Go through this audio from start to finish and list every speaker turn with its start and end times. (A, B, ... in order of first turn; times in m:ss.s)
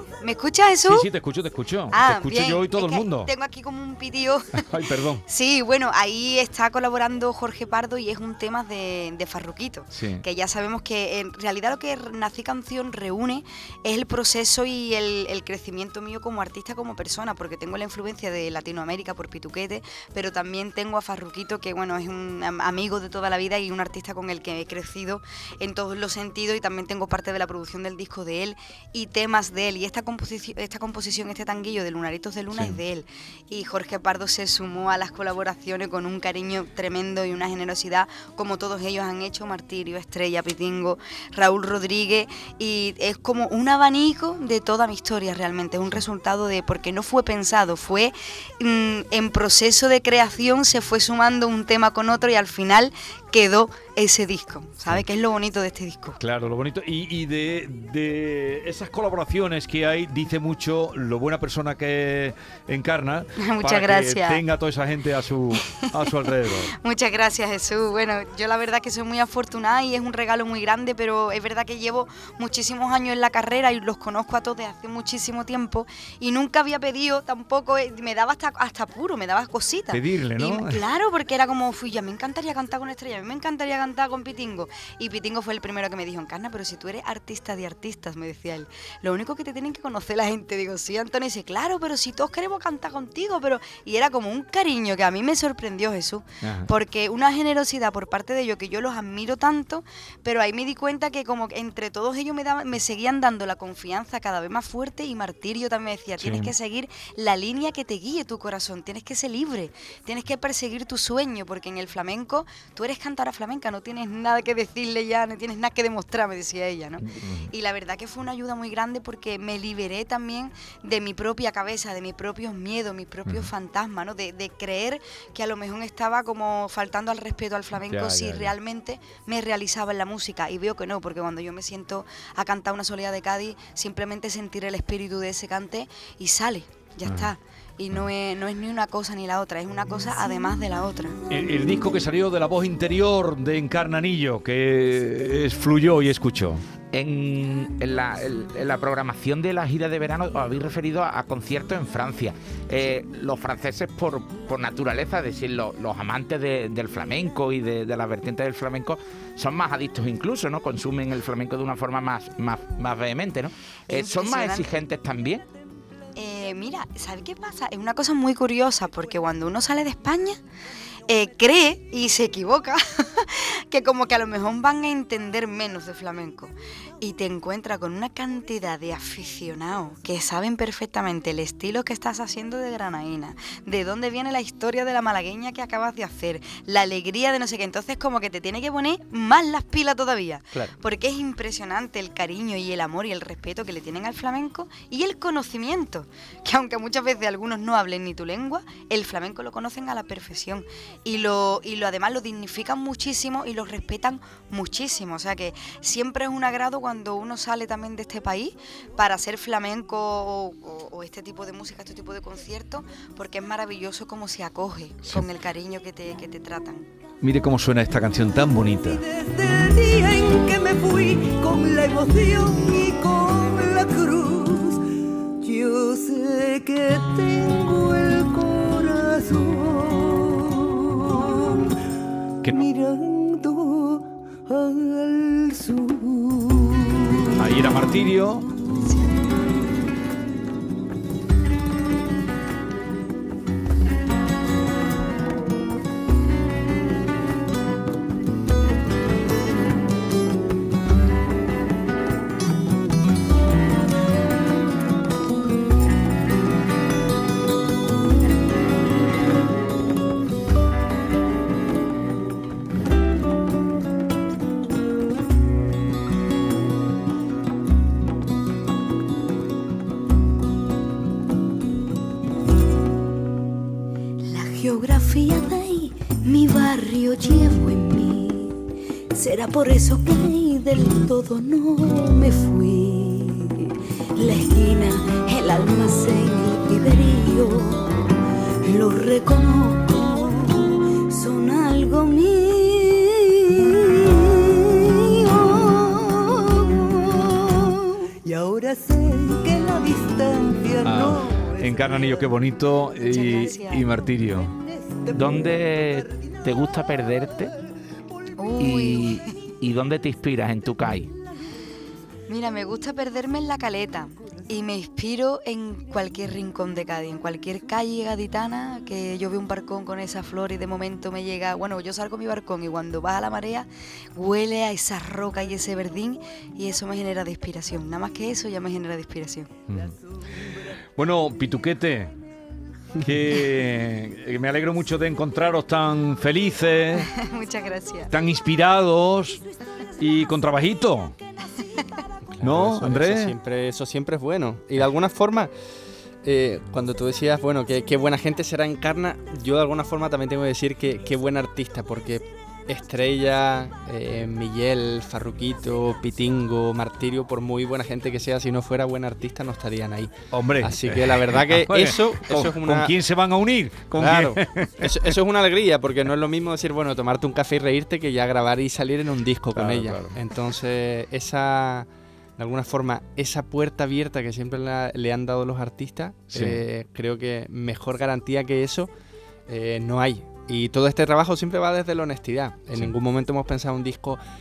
0:00.2-0:01.1 A
0:00.9-0:03.3 B
0:01.9-0:04.7 A
0:04.6-0:05.2 B
0:05.3-0:56.2 A
0:09.9-0:10.2 B
0:32.5-0:32.8 B
0:56.2-1:06.7 B
1:03.4-1:04.4 A
1:05.7-1:06.0 A
1:06.8-2:21.2 A
1:19.9-1:20.8 B
1:36.4-1:36.7 B
1:46.2-1:46.5 B
1:57.1-1:57.4 C
2:03.3-2:03.5 B
2:07.8-2:08.5 B
2:17.0-2:17.3 B
2:21.3-2:26.6 B
2:26.9-2:45.4 C
2:43.9-2:44.8 A
2:46.2-2:50.4 A
2:51.1-3:36.9 A
3:37.2-3:39.0 B
3:39.1-3:44.8 D
3:39.8-3:44.6 A
3:45.4-3:50.2 D
3:45.7-3:49.9 A
3:52.6-3:53.8 D
3:54.6-3:56.7 D
3:57.4-3:58.5 B
3:58.9-3:59.2 A
4:34.2-4:38.6 A
4:39.1-4:48.1 A
4:48.6-4:58.2 A
4:58.3-5:01.5 D
5:00.8-5:04.6 B
5:03.1-5:03.9 A
5:05.1-5:07.5 C
5:08.4-5:09.2 A
5:08.6-5:11.1 C
5:12.3-5:29.5 A
5:29.7-5:30.0 B
5:31.0-5:32.1 B
5:33.0-5:37.1 B
5:37.1-5:38.1 A
5:38.1-5:39.4 B
5:40.0-5:41.2 B
5:42.3-5:45.5 E
5:42.4-5:43.4 B
5:46.2-6:03.0 E
6:00.3-6:05.0 B
6:03.9-6:18.9 E
6:09.6-6:10.1 B
6:16.3-6:16.6 B
6:19.5-6:24.2 E